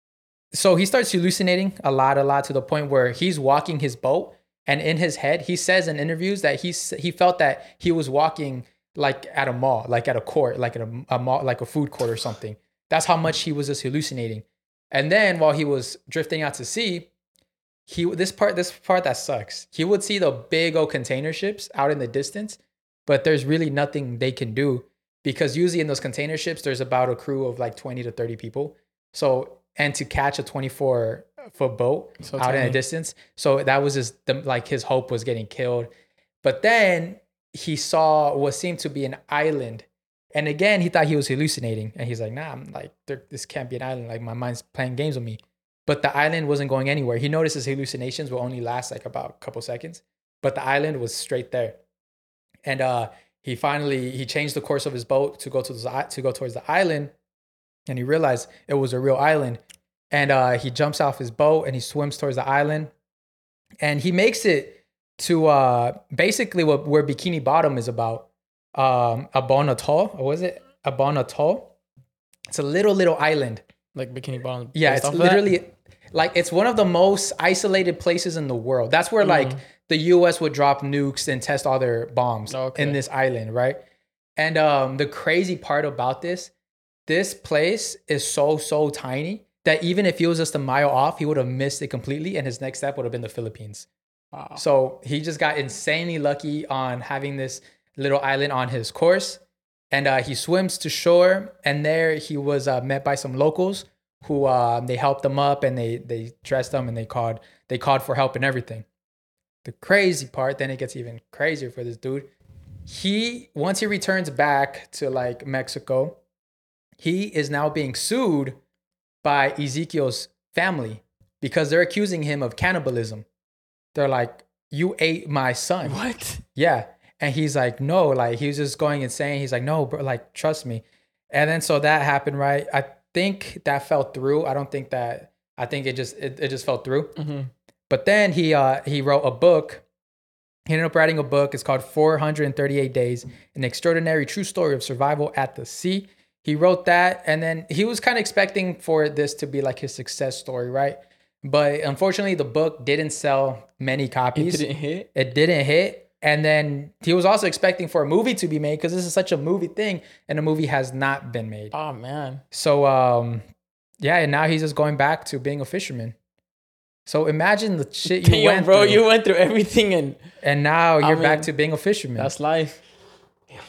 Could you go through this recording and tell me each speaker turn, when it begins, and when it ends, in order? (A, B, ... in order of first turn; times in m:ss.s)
0:00.5-0:17.1 A
0:17.9-0:35.9 A
0:32.2-0:32.8 B
0:36.4-0:51.8 A
0:52.6-0:57.1 A
0:57.9-1:02.9 A
1:03.8-1:11.7 A
1:12.5-1:13.6 A
1:13.9-1:15.5 B
1:14.7-1:23.8 A
1:19.2-1:19.6 B
1:22.5-1:23.0 B
1:24.4-1:26.5 A
1:27.1-1:33.9 A
1:34.3-1:34.6 B
1:34.5-1:48.8 A
1:49.6-1:52.3 A
1:52.9-1:56.2 A
1:57.0-1:58.6 A
1:59.2-2:03.2 A
2:03.9-2:06.0 A
2:05.8-2:06.4 B
2:06.5-2:17.2 A
2:17.2-2:17.5 B
2:17.9-2:19.8 A
2:20.7-2:41.7 A
2:34.3-2:35.1 B
2:41.7-2:42.4 B
2:42.5-2:43.4 A
2:44.0-2:46.1 A
2:47.0-2:49.0 A
2:48.0-2:50.2 B
2:50.4-2:52.3 A
2:51.0-2:51.5 B
2:52.2-2:52.8 B